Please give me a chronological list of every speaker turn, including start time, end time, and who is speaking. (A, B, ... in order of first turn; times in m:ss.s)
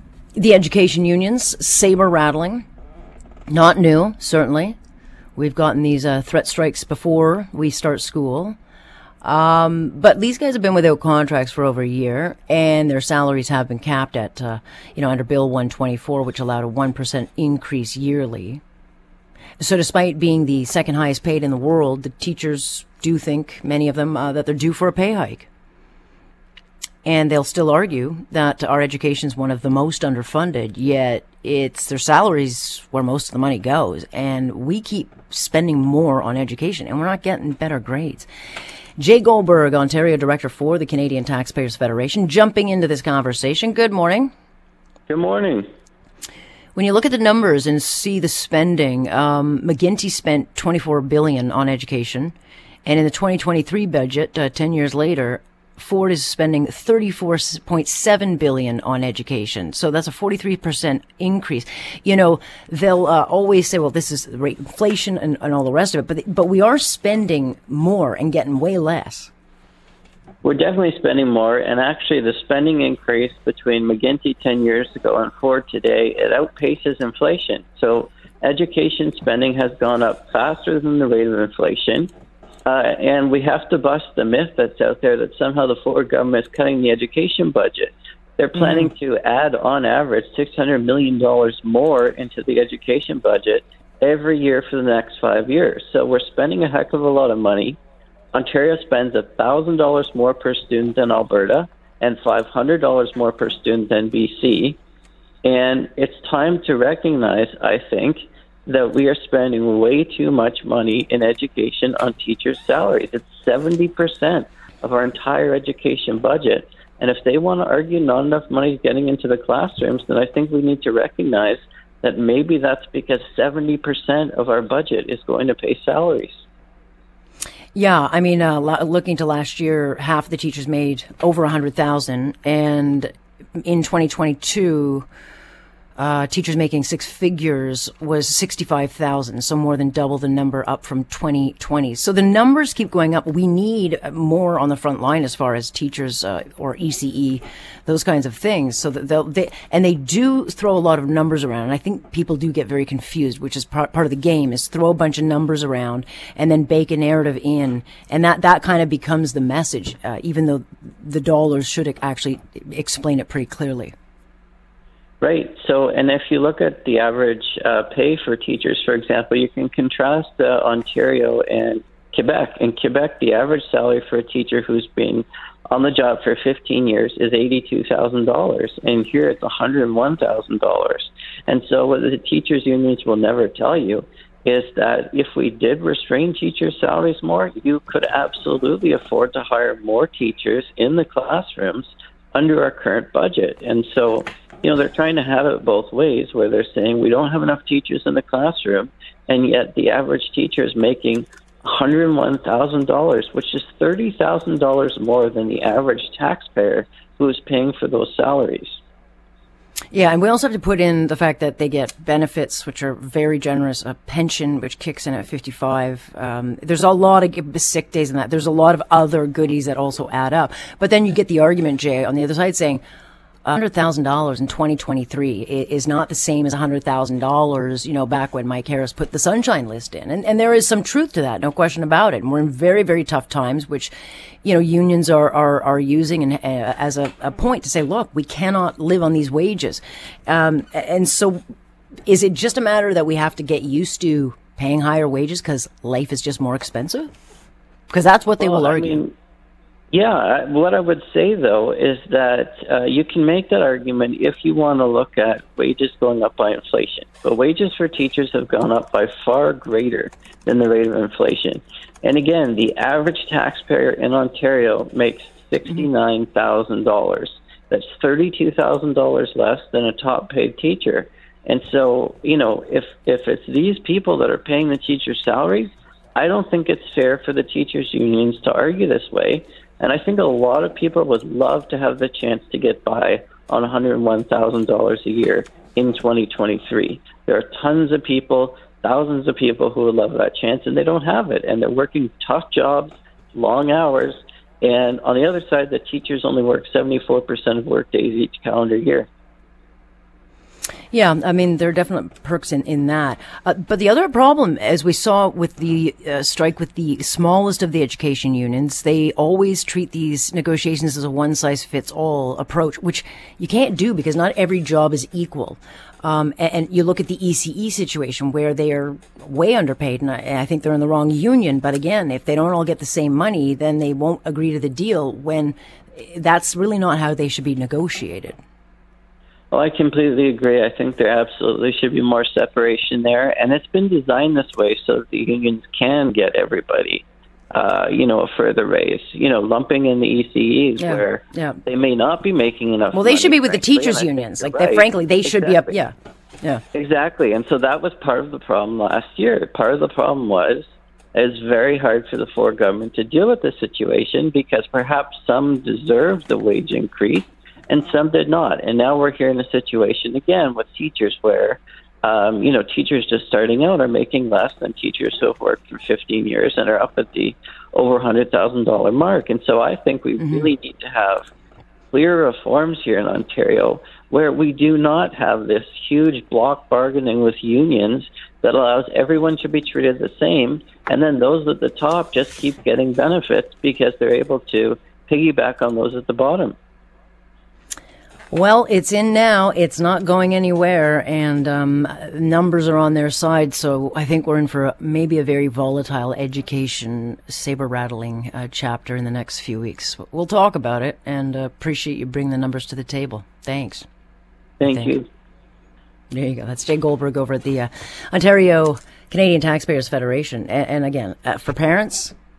0:00.3-0:02.6 A
0:03.5-0:04.8 A
0:05.4-0:08.6 A
0:09.2-0:18.6 A
0:19.6-0:25.5 A
0:27.0-0:38.3 A
0:39.0-0:44.3 A
0:45.1-0:45.6 B
0:46.7-0:52.3 A
0:52.8-1:09.3 A
1:10.4-1:22.1 B
1:22.6-1:37.8 B
1:28.5-1:28.9 A
1:38.3-1:44.8 B
1:45.4-2:06.4 B
2:07.7-2:15.1 A
2:16.0-2:43.9 A
2:45.2-3:28.8 B
3:29.9-3:42.8 A
3:43.4-3:53.9 A
3:54.4-4:01.4 A
4:02.1-4:07.1 A
4:07.9-4:09.0 A
4:08.4-4:09.1 B
4:09.9-4:59.1 B
5:00.9-5:28.4 A
5:29.5-5:45.7 B
5:40.8-5:41.6 A
5:42.9-5:46.6 A
5:46.7-6:11.3 B
6:11.9-6:26.5 B
6:28.3-6:43.8 A
6:44.6-6:45.0 B
6:44.6-6:45.0 A
6:46.1-6:52.1 A